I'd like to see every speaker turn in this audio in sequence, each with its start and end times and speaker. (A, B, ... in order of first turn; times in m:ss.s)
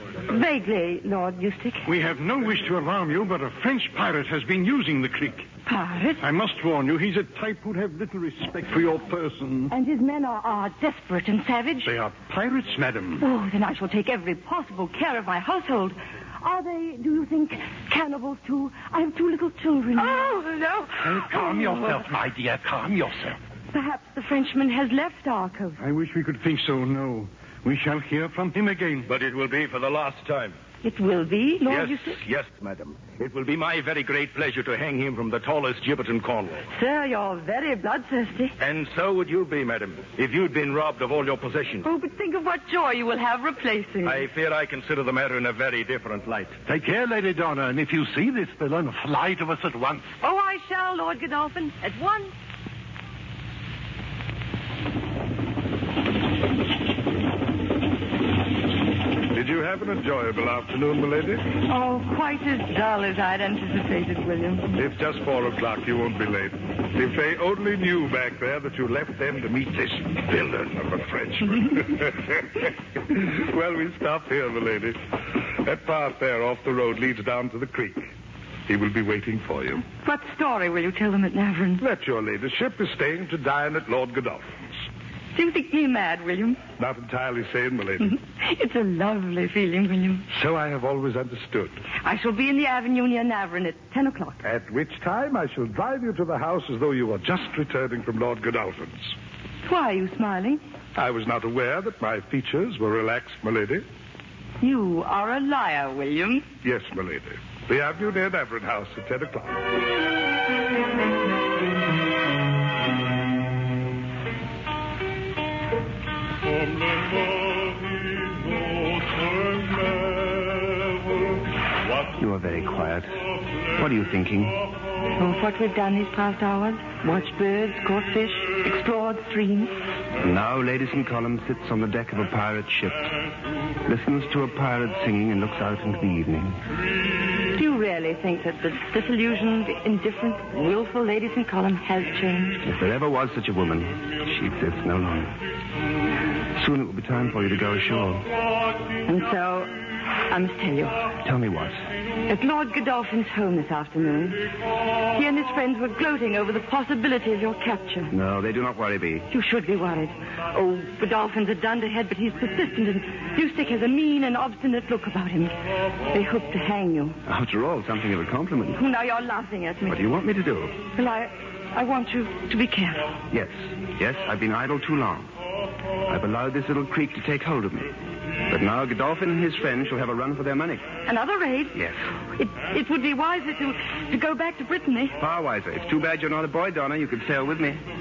0:00.3-0:01.9 A
0:01.9-0:05.4 B
0:05.7-0:06.2 A
0:06.2-0:09.6 B
0:09.7-0:11.9 A
0:11.9-0:13.0 B
0:13.2-0:22.1 A
0:21.0-0:23.4 B
0:23.7-0:25.8 A
0:26.0-0:27.1 B
0:28.3-0:29.0 B
0:29.1-0:30.6 C
0:30.8-0:32.2 A
0:31.7-0:36.6 C
0:36.7-0:38.5 A
0:38.6-0:41.8 C
0:41.8-0:44.2 A
0:44.0-0:46.6 C
0:46.7-0:50.1 B
0:50.2-0:52.3 A
0:59.3-1:01.4 D
1:01.7-1:04.7 A
1:04.8-1:15.0 D
1:15.6-1:18.1 D
1:18.7-1:19.8 D
1:20.0-1:21.8 A
1:21.8-1:24.6 D
1:25.4-1:26.6 A
1:26.8-1:28.2 D
1:28.1-1:30.3 A
1:30.3-1:31.8 D
1:32.0-1:34.4 A
1:34.4-1:39.1 D
1:39.7-1:40.6 A
1:41.0-1:43.8 D
1:44.6-1:46.4 A
1:46.6-1:49.6 D
2:02.2-2:03.1 E
2:03.7-2:04.6 E
2:05.2-2:09.8 A
2:10.2-2:13.1 E
2:13.9-2:16.6 E
2:17.5-2:22.6 A
2:22.6-2:25.4 E
2:26.6-2:28.3 E
2:29.1-2:31.1 A
2:31.2-2:31.9 E
2:32.3-2:34.4 A
2:35.1-2:38.1 A
2:38.1-2:39.3 E
2:39.3-2:45.5 A
2:46.1-2:47.2 A
2:47.2-2:48.8 E
2:48.8-2:50.0 A
2:49.9-2:50.8 E
2:51.0-2:53.1 A
2:53.3-2:55.3 E
2:56.1-2:58.0 E
2:58.5-3:00.9 E
3:01.1-3:01.8 A
3:02.4-3:05.2 A
3:05.2-3:07.8 E